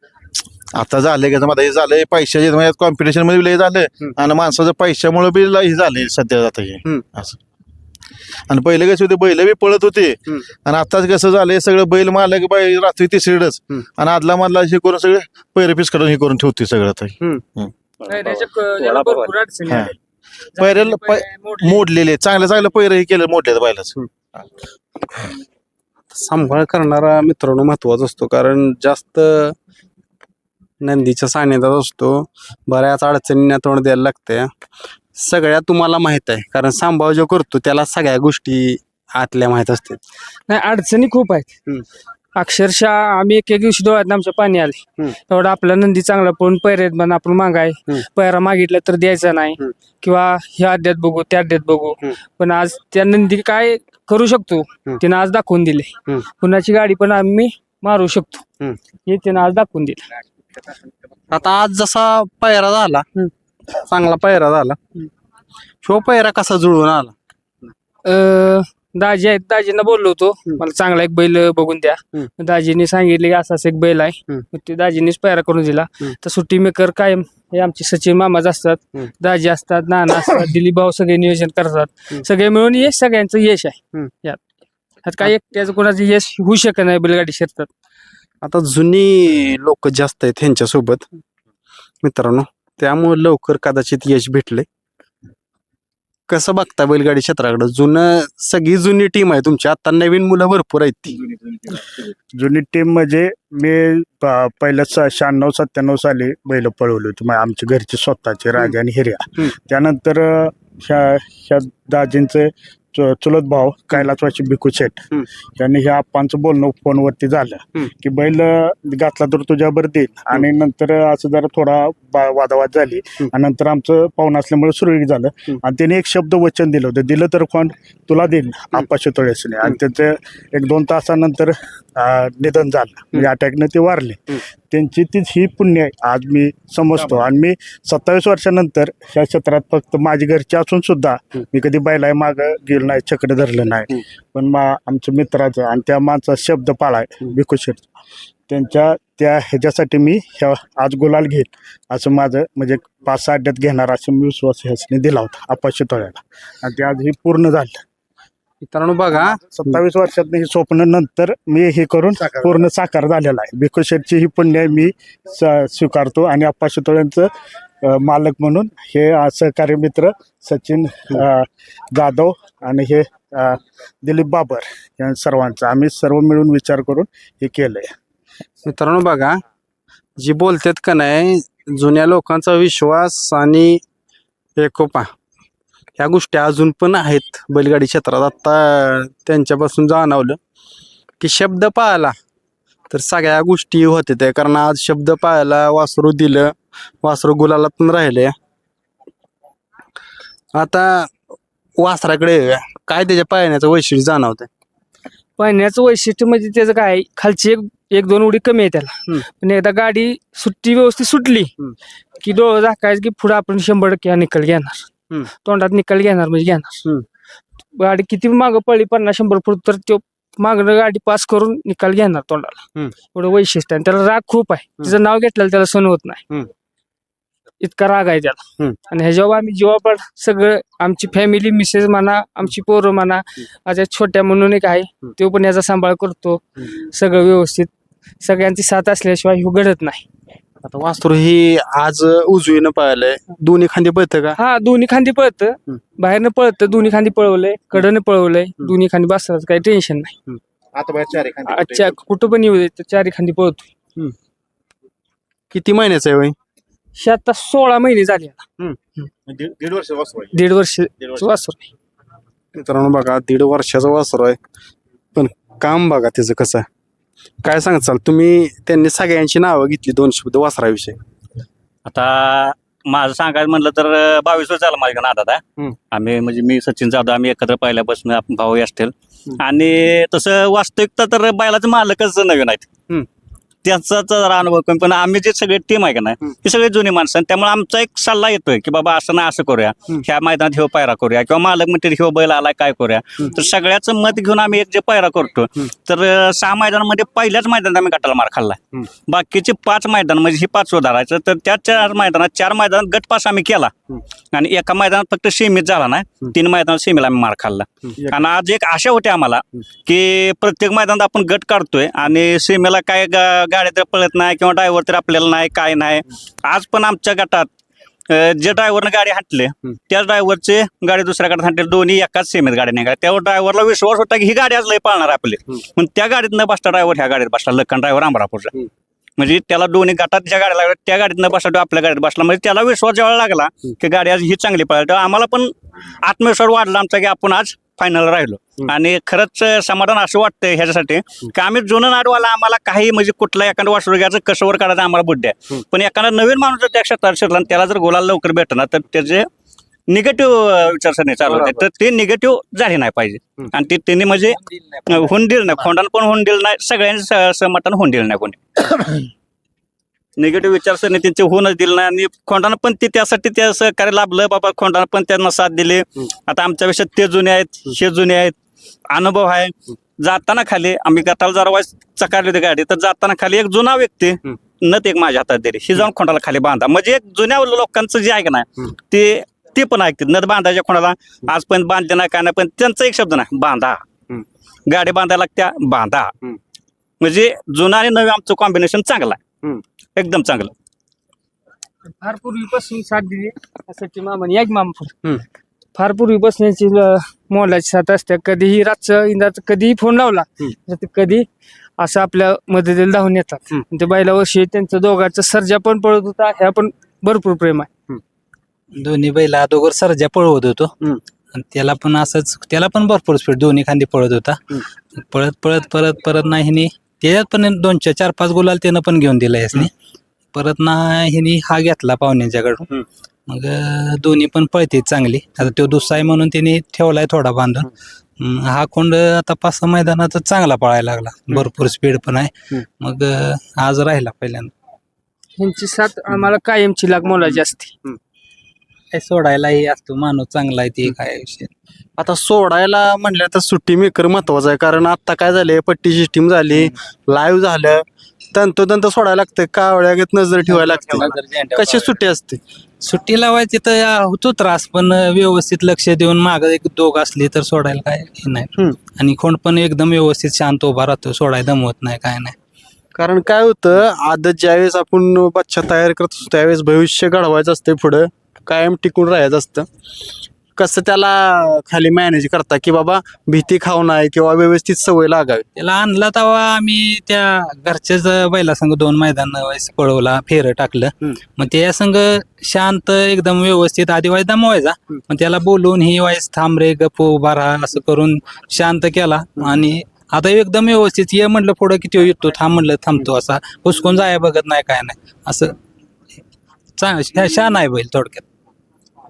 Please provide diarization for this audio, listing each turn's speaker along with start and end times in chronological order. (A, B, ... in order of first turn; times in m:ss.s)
0:00.7-0:07.4 A
0:08.5-0:17.7 A
0:18.0-0:19.9 B
0:18.1-0:19.3 C
0:20.6-0:21.8 B
0:20.6-0:24.0 A
0:26.1-0:29.6 D
0:30.8-0:34.5 D
0:35.2-0:40.0 D
0:40.5-0:41.5 B
0:42.4-0:58.4 B
0:59.1-1:00.0 B
1:01.3-1:03.1 D
1:03.7-1:04.8 D
1:05.8-1:07.1 D
1:08.0-1:24.4 B
1:25.0-1:27.7 B
1:28.4-1:31.1 D
1:32.0-1:34.7 D
1:36.3-1:41.2 D
1:42.4-2:27.9 E
2:28.5-2:37.8 E
2:38.6-2:39.8 D
2:39.3-2:47.3 E
2:47.8-2:57.9 E
2:58.7-2:59.4 D
3:00.2-3:03.8 D
3:04.6-3:05.1 D
3:06.0-3:10.4 D
3:11.2-3:12.2 D
3:12.9-3:18.3 D
3:20.6-3:21.1 D
3:21.8-3:24.5 D
3:25.4-3:31.5 B
3:32.2-3:36.8 B
3:37.8-3:46.2 B
3:47.6-3:57.7 B
3:58.2-4:00.1 B
4:00.6-4:04.4 D
4:04.4-4:10.2 B
4:10.8-4:12.0 A
4:11.4-4:13.7 B
4:15.5-4:16.4 D
4:17.0-4:18.4 B
4:19.3-4:20.4 A
4:20.3-4:21.7 B
4:21.0-4:21.2 A
4:22.6-4:24.4 D
4:25.2-4:26.7 D
4:27.4-4:31.0 D
4:31.9-4:42.7 C
4:43.6-5:03.7 C
5:04.3-5:17.5 C
5:18.1-5:28.5 C
5:29.2-5:49.3 C
5:49.9-5:59.1 C
6:00.2-6:08.4 C
6:08.9-6:23.8 C
6:24.7-6:26.1 C
6:27.0-6:29.2 C
6:30.0-6:30.5 C
6:32.0-6:35.0 B
6:35.8-6:41.3 B
6:41.8-6:47.7 B
6:48.8-6:50.7 F
6:51.3-6:59.7 F
7:00.3-7:07.7 F
7:08.2-7:14.5 F
7:15.4-7:17.8 B
7:18.9-7:21.5 F
7:22.0-7:32.4 D
7:30.5-7:31.9 F
7:32.8-7:42.4 F
7:43.0-7:49.7 D
7:50.6-7:55.4 D
7:55.6-8:15.5 F
8:16.8-8:18.2 F